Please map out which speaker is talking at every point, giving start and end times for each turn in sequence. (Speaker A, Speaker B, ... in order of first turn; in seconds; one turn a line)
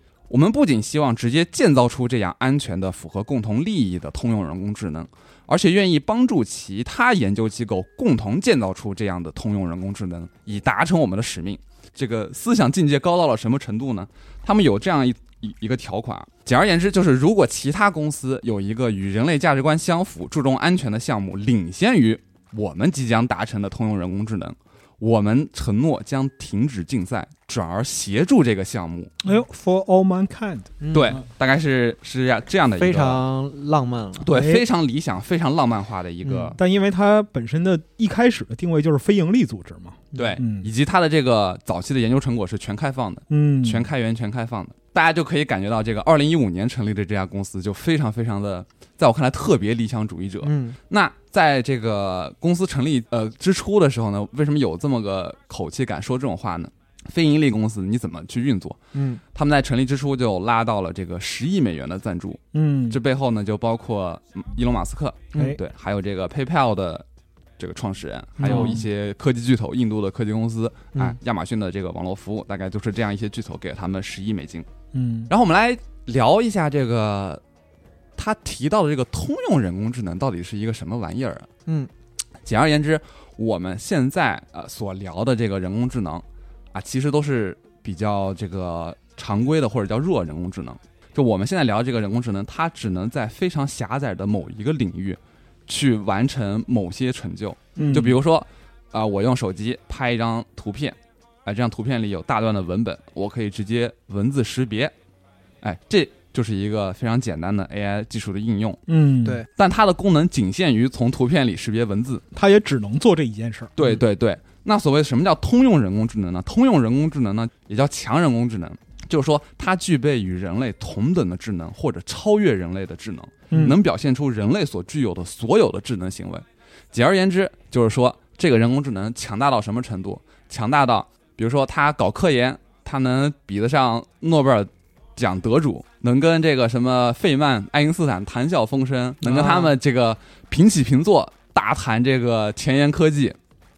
Speaker A: 0.3-29.1
Speaker B: 29.2-31.2
Speaker C: 30.8-31.2
Speaker A: 30.9-33.2
Speaker C: 32.8-34.3
Speaker A: 34.2-36.6
Speaker B: 34.3-34.6
Speaker C: 36.2-36.5
Speaker B: 36.5-40.7
Speaker C: 40.1-40.4
Speaker A: 40.1-58.8
Speaker B: 43.3-43.9
Speaker C: 50.4-50.8
Speaker C: 58.9-59.2
Speaker A: 59.3-67.0
Speaker B: 62.5-63.0
Speaker A: 67.6-74.7
Speaker C: 68.4-68.8
Speaker B: 68.4-68.8
Speaker B: 74.9-75.3
Speaker A: 75.3-77.4
Speaker A: 78.2-81.5
Speaker A: 82.4-104.9
Speaker C: 97.8-98.0
Speaker B: 97.8-98.1
Speaker A: 105.6-108.8
Speaker B: 108.9-109.4
Speaker A: 109.5-112.2
Speaker B: 112.3-113.7
Speaker A: 113.8-143.4
Speaker B: 123.5-123.8
Speaker C: 139.2-139.7